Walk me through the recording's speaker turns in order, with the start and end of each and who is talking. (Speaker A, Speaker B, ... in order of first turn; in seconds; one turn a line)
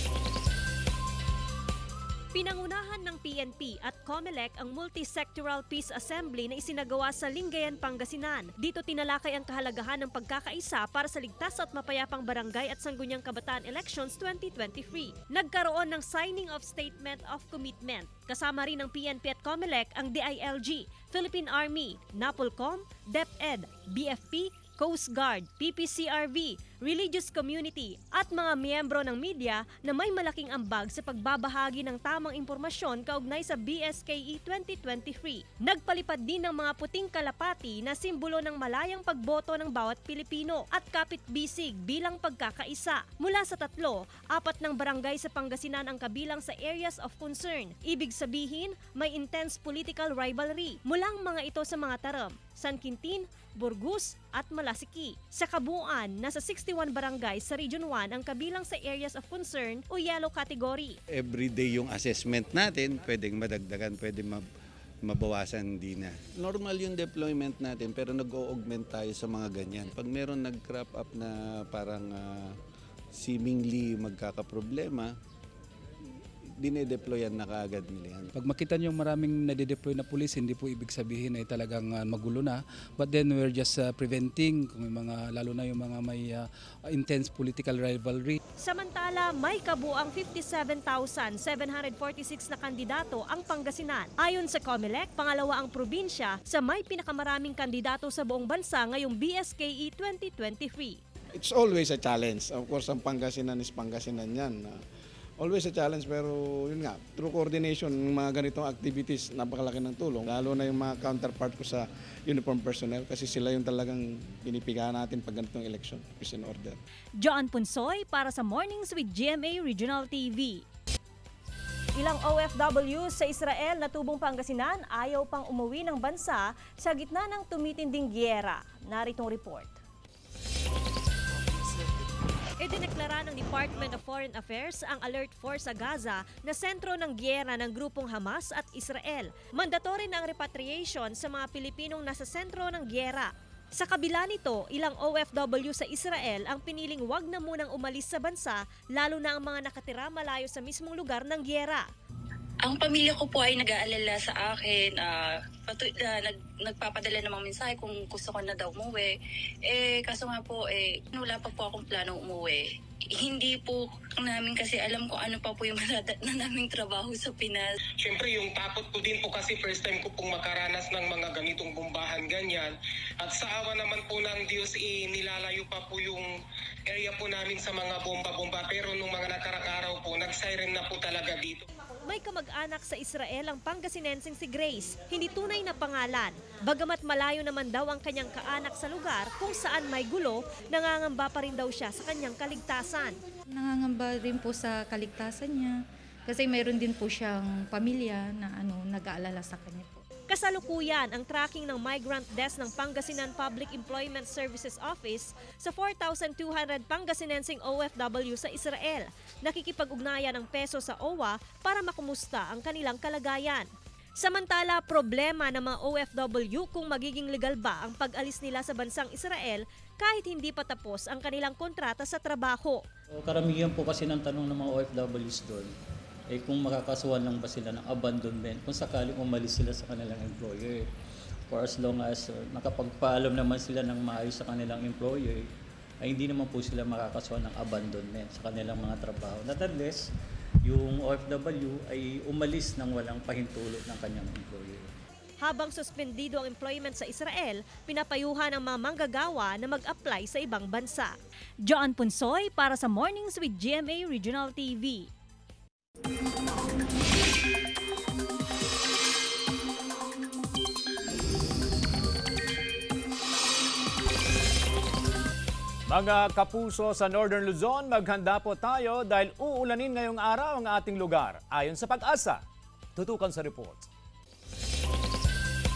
Speaker A: 2.3-61.0
Speaker B: 61.1-64.4
Speaker B: 65.0-72.5
Speaker B: 73.1-75.1
Speaker B: 76.6-78.3
Speaker C: 78.3-88.4
Speaker A: 88.6-101.0
Speaker D: 101.4-104.8
Speaker D: 105.4-116.8
Speaker A: 117.2-120.6
Speaker A: 122.0-129.8
Speaker A: 132.6-151.8
Speaker E: 152.6-159.1
Speaker E: 159.7-167.7
Speaker F: 168.0-176.3
Speaker F: 176.9-181.6
Speaker A: 182.1-193.2
Speaker G: 193.5-195.7
Speaker G: 196.3-200.0
Speaker A: 200.3-213.7
Speaker A: 214.2-222.8
Speaker H: 223.2-225.7
Speaker H: 226.3-230.9
Speaker H: 231.5-235.5
Speaker H: 236.0-240.1
Speaker H: 240.6-244.9
Speaker A: 245.4-251.1
Speaker A: 251.6-255.1
Speaker I: 265.9-272.4
Speaker I: 272.9-273.9